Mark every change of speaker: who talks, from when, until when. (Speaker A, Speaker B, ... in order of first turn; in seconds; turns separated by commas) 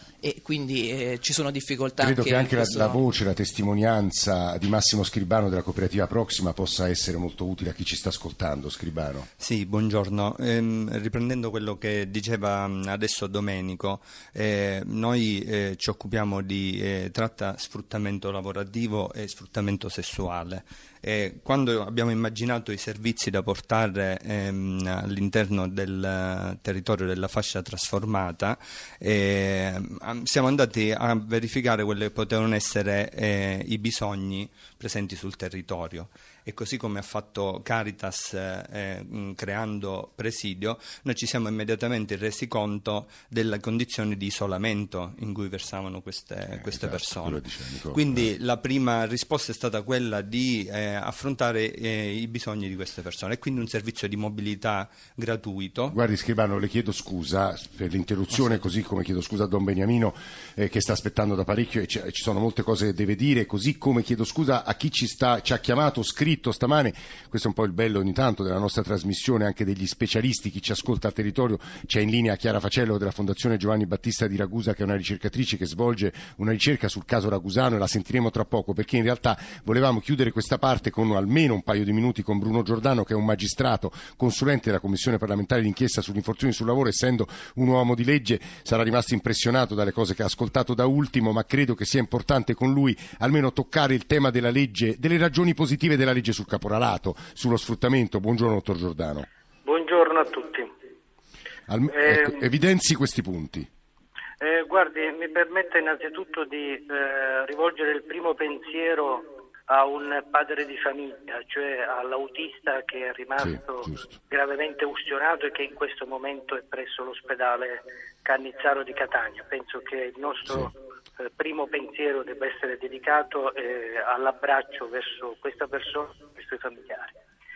Speaker A: 0.2-3.0, Speaker B: 2.0-9.3, Speaker C: 9.4-56.0, Speaker B: 46.5-48.3, Speaker B: 55.9-99.3, Speaker D: 99.6-100.7, Speaker B: 101.7-103.7, Speaker D: 101.9-102.4, Speaker D: 104.4-127.1, Speaker B: 113.4-114.2